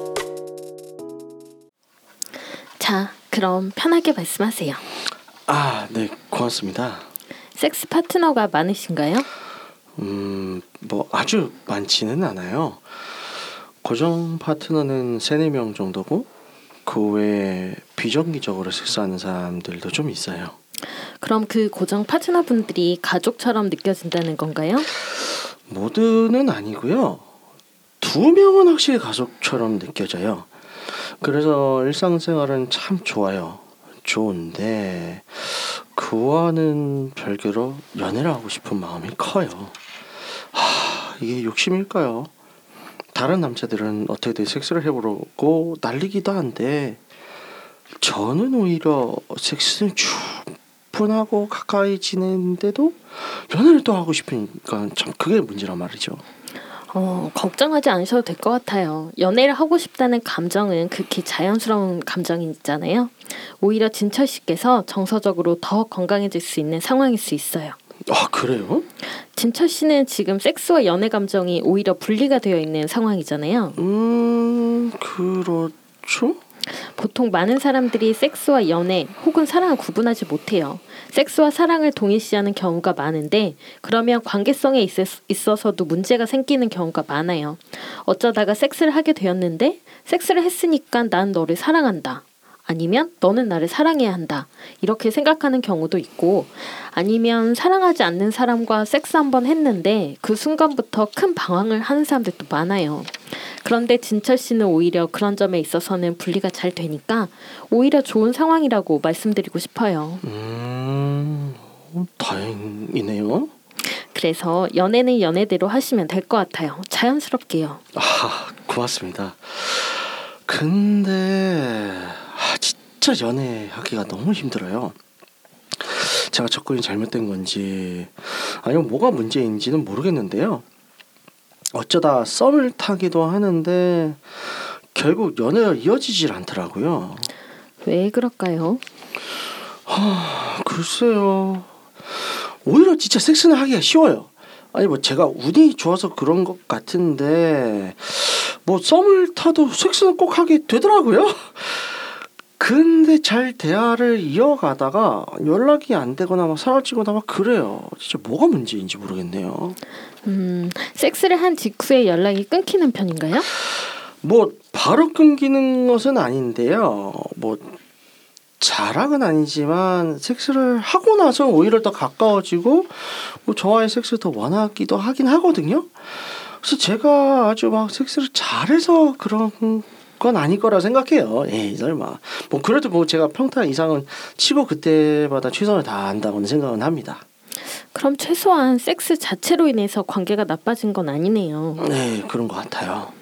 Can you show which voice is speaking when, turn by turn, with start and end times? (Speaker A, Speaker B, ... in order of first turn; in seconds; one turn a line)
Speaker A: 2.8-4.8
Speaker B: 5.5-7.1
Speaker A: 7.5-9.3
Speaker B: 10.0-12.8
Speaker B: 13.8-16.3
Speaker B: 16.9-20.6
Speaker A: 21.2-24.9
Speaker B: 25.1-27.2
Speaker B: 28.0-39.8
Speaker B: 40.5-42.3
Speaker B: 43.1-47.0
Speaker B: 48.0-56.2
Speaker A: 56.9-67.8
Speaker B: 68.1-68.9
Speaker A: 69.3-73.8
Speaker B: 73.8-76.4
Speaker A: 76.8-110.2
Speaker B: 110.2-113.5
Speaker A: 113.8-117.8
Speaker B: 117.9-125.0
Speaker B: 125.7-130.6
Speaker B: 131.7-137.3
Speaker A: 137.8-138.8
Speaker B: 139.9-159.8
Speaker A: 160.2-163.5
Speaker B: 163.6-167.8
Speaker B: 168.6-187.2
Speaker A: 187.9-191.9
Speaker B: 191.8-193.1